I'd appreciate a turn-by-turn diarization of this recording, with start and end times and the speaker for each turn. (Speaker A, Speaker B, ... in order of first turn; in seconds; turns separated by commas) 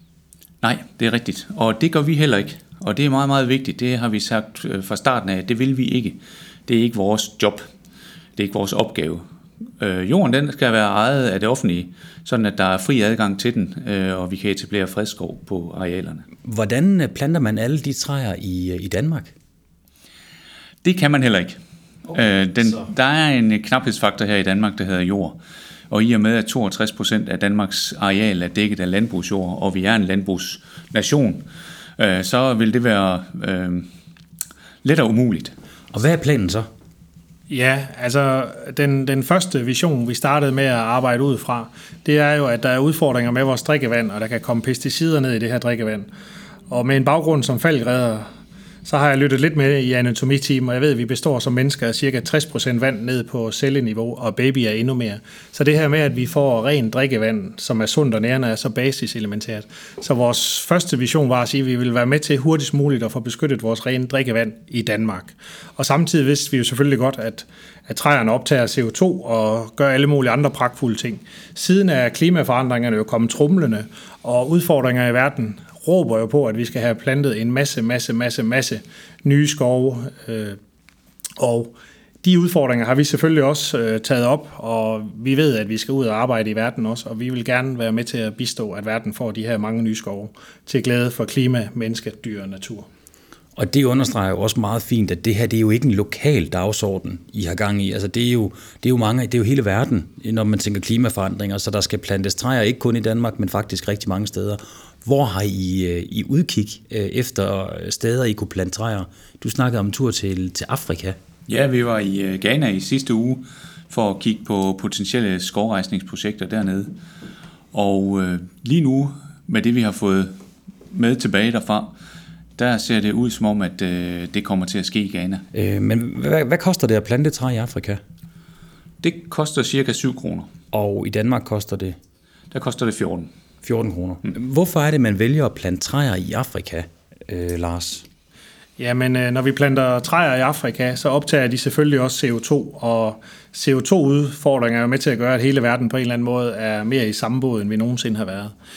Speaker A: 0.6-7.7, Speaker A: 8.3-9.2, Speaker A: 9.8-16.2, Speaker B: 16.4-19.3, Speaker A: 20.8-21.6, Speaker B: 22.1-22.9, Speaker A: 22.1-33.9, Speaker A: 34.8-35.5, Speaker B: 35.9-36.7, Speaker C: 37.5-46.1, Speaker C: 46.7-48.3, Speaker C: 48.8-80.6, Speaker C: 81.4-92.9, Speaker B: 93.5-111.2, Speaker A: 111.5-116.9, Speaker A: 117.7-120.4, Speaker A: 120.9-121.9, Speaker A: 122.6-125.4, Speaker B: 125.5-128.0, Speaker A: 129.0-130.5, Speaker B: 130.7-132.0, Speaker A: 132.5-133.3, Speaker B: 133.6-138.1, Speaker C: 138.8-148.5